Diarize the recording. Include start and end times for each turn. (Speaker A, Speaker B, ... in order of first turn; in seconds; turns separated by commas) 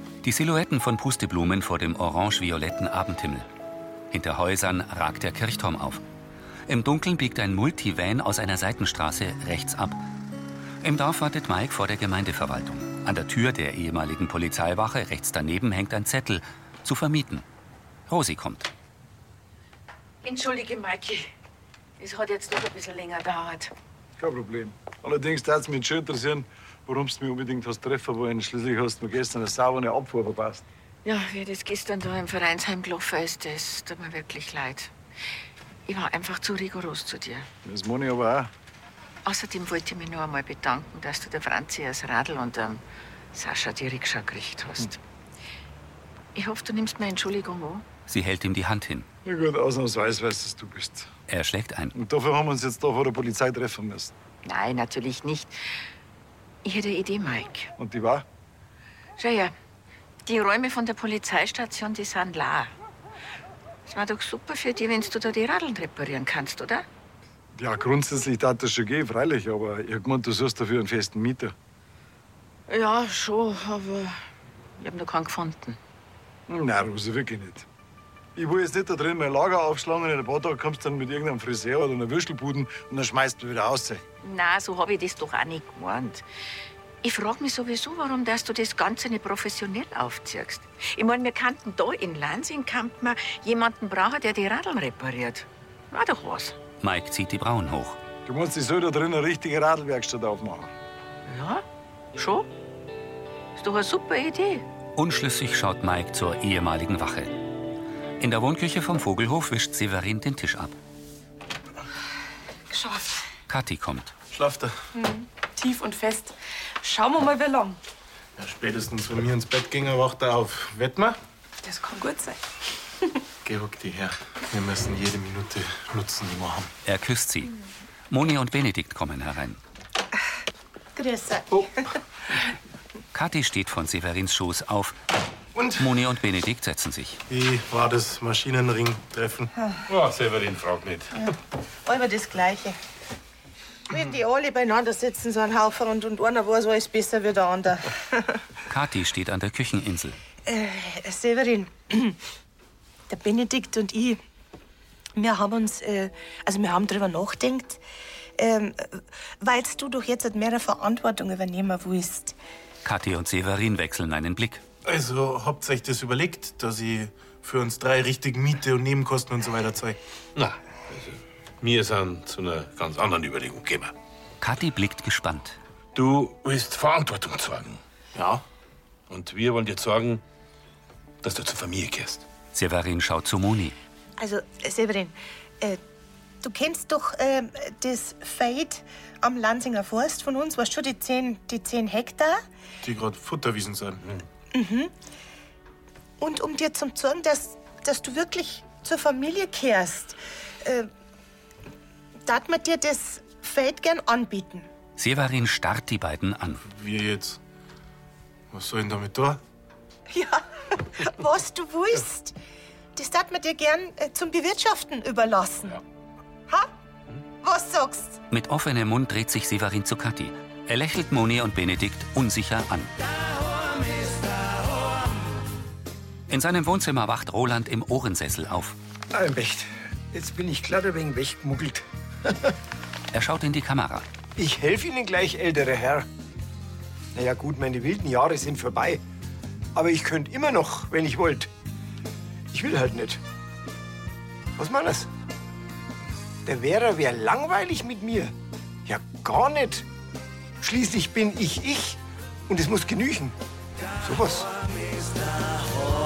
Speaker A: 0.2-3.5, Speaker A: 4.1-6.0, Speaker A: 6.7-10.0, Speaker A: 10.8-17.4, Speaker A: 18.1-18.7, Speaker B: 20.2-21.3, Speaker B: 22.0-23.7, Speaker C: 24.2-30.6, Speaker B: 31.1-34.9, Speaker B: 35.9-37.5, Speaker C: 37.6-38.5, Speaker B: 39.2-42.8, Speaker B: 43.3-45.0, Speaker B: 46.4-47.9, Speaker A: 48.1-49.1, Speaker C: 49.2-51.1, Speaker A: 51.3-51.9, Speaker C: 52.0-54.1, Speaker B: 54.5-55.6, Speaker B: 56.6-57.7, Speaker C: 57.8-58.2, Speaker B: 59.2-59.5, Speaker B: 60.2-62.7, Speaker B: 63.9-66.8, Speaker C: 67.5-71.5, Speaker B: 72.7-74.2, Speaker B: 74.8-75.8, Speaker C: 76.5-77.7, Speaker C: 78.4-84.0, Speaker B: 84.2-86.2, Speaker B: 87.0-96.6, Speaker A: 96.8-98.0, Speaker C: 98.2-100.7, Speaker B: 101.3-102.5, Speaker B: 103.6-104.7, Speaker A: 105.0-107.4, Speaker A: 108.2-110.7, Speaker D: 112.7-113.2, Speaker A: 113.5-114.1, Speaker E: 114.3-114.8, Speaker D: 114.9-117.8, Speaker E: 118.4-121.2, Speaker D: 121.6-122.4, Speaker E: 123.4-126.7, Speaker A: 126.8-127.5, Speaker A: 128.1-129.6, Speaker F: 130.9-131.7, Speaker A: 133.1-135.0, Speaker A: 135.8-137.2, Speaker E: 137.3-139.5, Speaker G: 139.9-141.2, Speaker F: 141.9-142.8, Speaker F: 143.9-148.2, Speaker A: 148.7-150.2, Speaker F: 150.5-152.2, Speaker F: 153.1-154.2, Speaker F: 155.2-157.8, Speaker F: 158.4-162.3, Speaker A: 162.8-164.6, Speaker E: 164.8-170.0, Speaker G: 170.3-173.9, Speaker A: 174.4-175.6, Speaker G: 175.9-177.8, Speaker E: 178.2-178.4, Speaker G: 179.1-180.2, Speaker G: 181.2-182.2, Speaker A: 182.5-183.8, Speaker F: 184.2-185.8, Speaker F: 186.4-192.4, Speaker E: 192.8-194.1, Speaker F: 194.5-194.9, Speaker F: 196.2-200.9, Speaker F: 202.2-204.7, Speaker A: 205.0-206.6, Speaker E: 206.6-207.4, Speaker E: 208.5-209.4, Speaker F: 210.1-212.3, Speaker F: 212.9-215.8, Speaker F: 217.4-218.2, Speaker A: 218.3-222.9, Speaker A: 226.3-228.8, Speaker H: 229.1-232.3, Speaker A: 233.1-234.1, Speaker H: 234.4-236.1, Speaker H: 237.2-239.0, Speaker H: 239.8-241.5, Speaker H: 242.5-243.2, Speaker H: 244.6-245.1, Speaker H: 246.4-248.3, Speaker H: 248.9-249.8, Speaker H: 250.6-253.3, Speaker H: 254.0-254.5